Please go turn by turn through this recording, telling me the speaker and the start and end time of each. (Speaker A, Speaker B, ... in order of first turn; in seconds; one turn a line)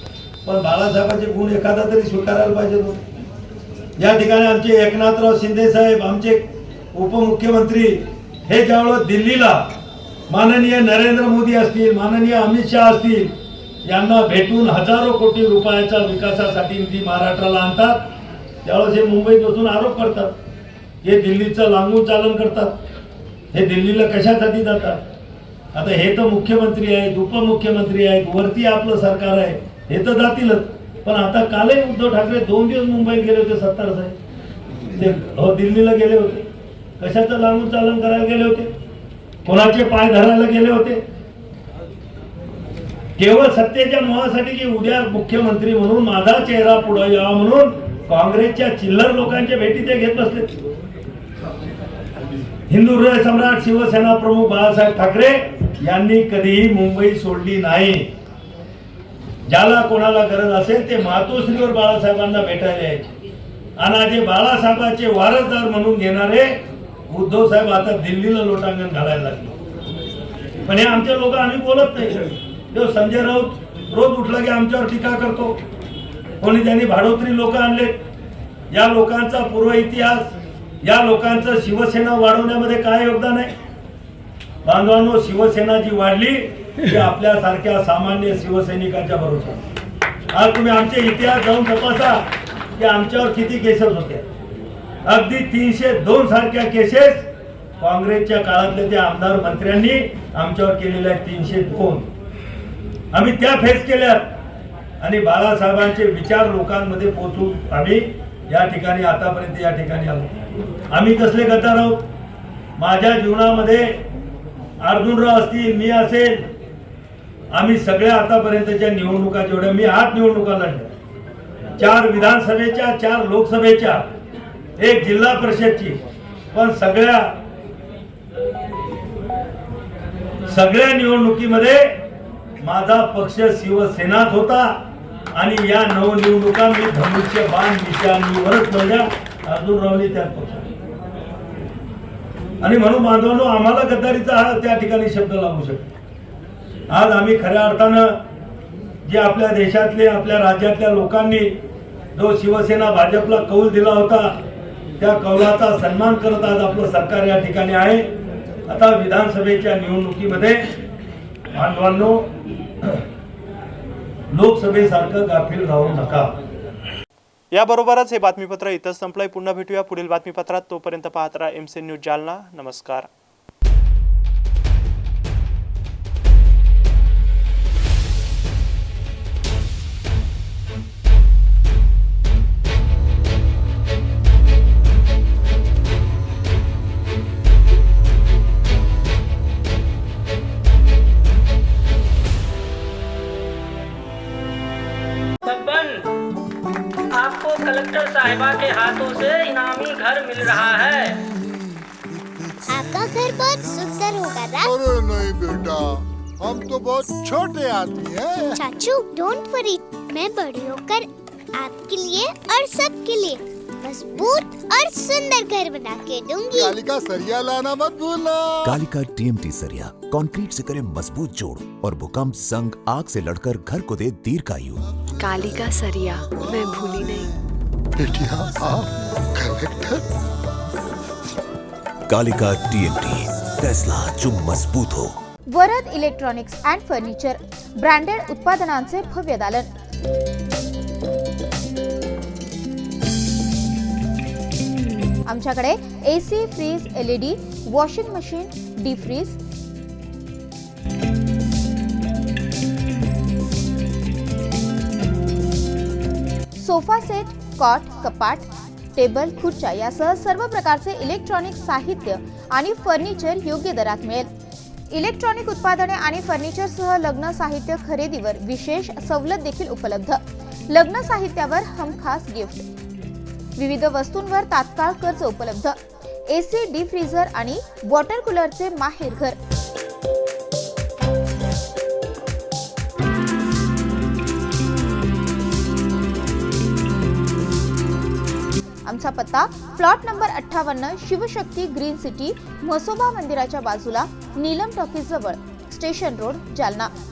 Speaker A: 0.5-3.0
Speaker A: 4.0-9.7
Speaker A: 10.3-13.3
Speaker A: 13.8-18.1
Speaker A: 18.6-20.4
Speaker A: 21.0-22.8
Speaker A: 23.5-25.0
Speaker A: 25.7-34.2
Speaker A: 34.9-36.5
Speaker A: 37.0-38.7
Speaker A: 39.5-41.0
Speaker A: 43.2-50.5
Speaker A: 52.7-58.1
Speaker A: 59.5-63.1
Speaker A: 63.8-66.5
Speaker A: 67.1-69.5
Speaker A: 70.7-75.6
Speaker A: 76.4-78.0
Speaker A: 78.7-80.3
Speaker A: 80.8-83.5
Speaker A: 84.7-89.6
Speaker A: 90.3-92.2
Speaker A: 92.8-94.3
Speaker A: 95.0-97.3
Speaker A: 97.8-102.1
Speaker A: 103.1-104.3
Speaker A: 105.0-110.3
Speaker A: 110.9-112.0
Speaker A: 112.8-114.0
Speaker A: 114.8-116.5
Speaker A: 117.5-120.9
Speaker A: 121.8-124.1
Speaker A: 124.8-126.0
Speaker A: 126.5-127.3
Speaker A: 130.5-132.0
Speaker A: 132.6-134.8
Speaker A: 135.3-140.7
Speaker A: 142.6-145.9
Speaker A: 146.9-148.2
Speaker A: 149.1-151.5
Speaker A: 152.2-154.4
Speaker A: 155.0-158.1
Speaker A: 158.7-160.8
Speaker A: 161.5-162.3
Speaker A: 164.3-166.3
Speaker B: 167.5-173.1
Speaker C: 195.4-196.0
Speaker C: 197.1-201.2
Speaker D: 202.7-204.7
Speaker E: 202.7-203.2
Speaker E: 204.6-208.6
Speaker D: 208.6-216.8
Speaker E: 216.5-218.7
Speaker F: 218.7-224.8
Speaker G: 225.2-227.3
Speaker E: 228.0-230.0
Speaker F: 232.1-235.1
Speaker H: 235.5-239.7
Speaker H: 245.3-249.4
Speaker H: 256.6-264.3
Speaker H: 264.9-272.7
Speaker H: 273.6-275.8
Speaker H: 276.3-279.4
Speaker H: 288.9-296.9